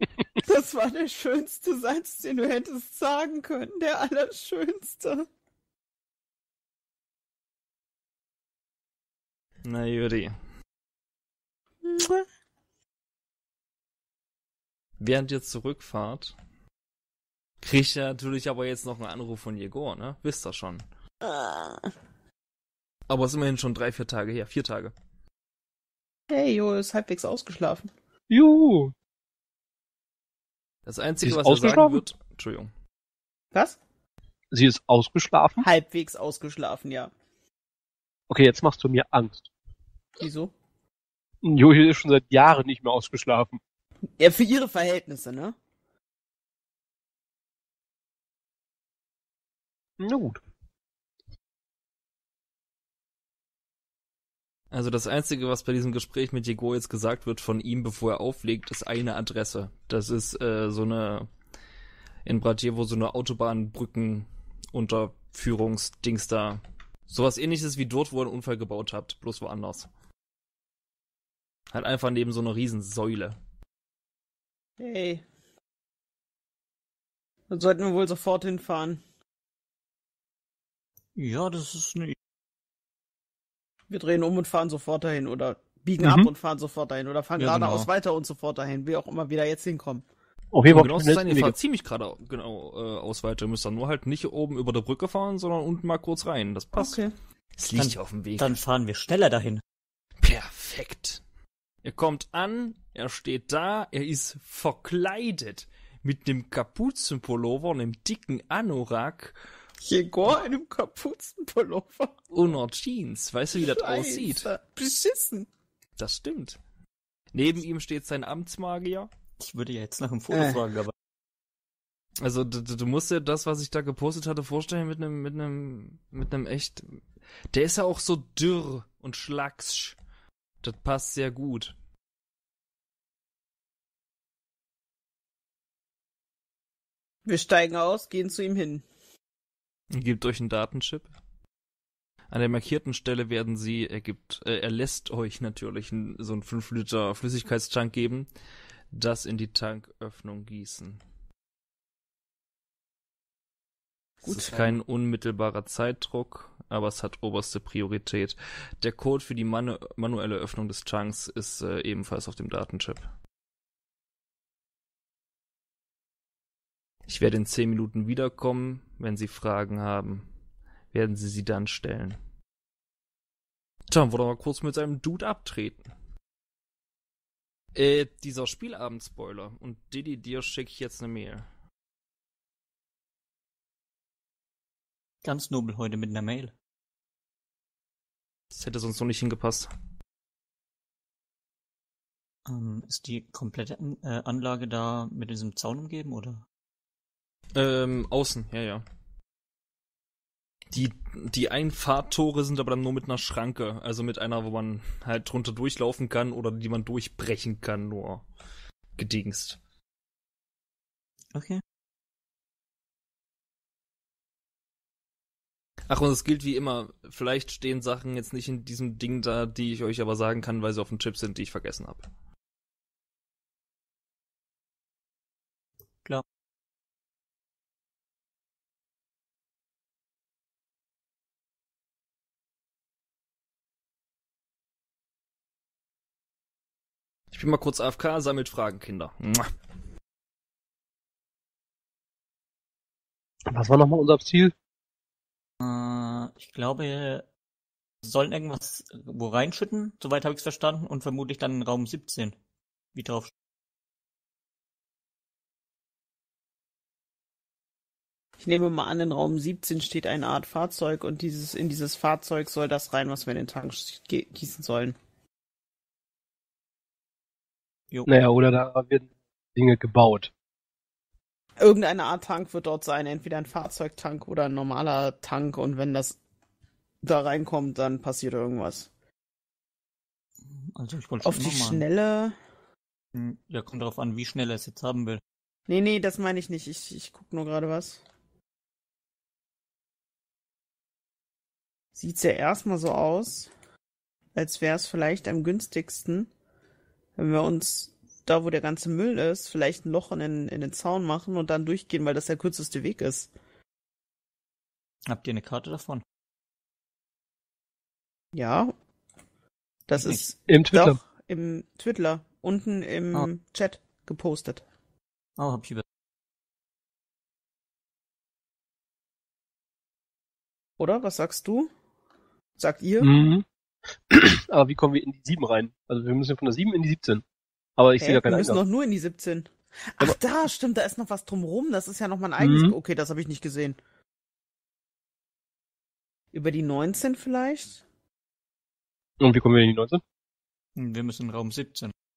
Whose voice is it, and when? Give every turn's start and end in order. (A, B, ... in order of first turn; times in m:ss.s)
0:00.4-0:05.2 A
0:09.6-0:10.4 B
0:11.8-0:12.2 A
0:15.0-0:16.3 B
0:17.6-0:20.8 B
0:21.2-0:21.9 A
0:23.1-0:24.9 B
0:26.3-0:27.9 A
0:28.3-0:28.9 C
0:30.8-0:32.7 B
0:31.2-0:32.0 C
0:33.5-0:33.8 A
0:34.5-0:35.6 C
0:35.6-0:37.1 A
0:38.3-0:39.5 C
0:40.2-0:40.5 A
0:41.4-0:43.6 C
0:44.2-0:45.5 A
0:50.0-0:50.4 C
0:54.7-1:01.3 B
1:02.2-1:09.9 B
1:11.7-1:13.4 B
1:14.8-1:15.2 A
1:17.5-1:19.0 A
1:21.2-1:22.2 D
1:23.9-1:30.0 A
1:26.0-1:26.3 C
1:27.4-1:27.9 D
1:30.5-1:31.6 C
1:30.7-1:37.0 B
1:36.8-1:37.1 A
1:37.6-1:38.5 B
1:37.8-1:39.6 D
1:40.2-1:41.2 B
1:41.8-1:49.4 B
1:49.8-1:52.2 A
1:52.3-1:54.5 B
1:53.5-1:55.5 A
1:56.0-1:56.6 B
1:57.3-1:59.1 B
1:59.4-2:00.9 D
2:00.3-2:00.6 A
2:02.2-2:10.0 B
2:10.6-2:11.7 B
2:17.2-2:18.8 A
2:19.9-2:21.1 B
2:22.3-2:28.3 B
2:28.9-2:31.0 B
2:34.2-2:43.0 B
2:34.2-2:34.8 A
2:47.1-2:50.3 B
2:50.9-2:52.2 B
2:53.9-2:55.9 B
2:57.7-3:01.5 B
3:05.2-3:06.5 D
3:08.5-3:09.7 B
3:12.5-3:16.4 D
3:17.5-3:18.8 B
3:20.7-3:28.2 B
3:29.0-3:29.6 B
3:31.3-3:31.6 D
3:35.9-3:42.0 B
3:57.3-3:59.5 B
4:03.5-4:04.5 C
4:05.6-4:07.3 D
4:08.0-4:12.4 D
4:12.9-4:13.3 D
4:18.4-4:24.9 A
4:28.0-4:30.3 C
4:31.6-4:36.2 A
4:37.0-4:38.9 A
4:40.5-4:41.8 D
4:41.2-4:42.3 A
4:43.1-4:45.2 D
4:45.7-4:48.0 A
4:52.0-4:53.5 A
4:54.3-4:56.3 A
4:57.2-5:03.3 A
5:05.0-5:06.0 D
5:08.3-5:08.7 A
5:09.9-5:14.6 A
5:10.0-5:10.2 D
5:10.5-5:11.0 C
5:15.4-5:15.8 D
5:20.8-5:21.7 A
5:22.6-5:23.1 A
5:23.0-5:23.4 C
5:24.1-5:27.2 C
5:27.8-5:28.6 C
5:28.0-5:33.8 A
5:32.4-5:32.7 C
5:36.3-5:37.8 A
5:39.2-5:40.0 C
5:40.8-5:41.9 D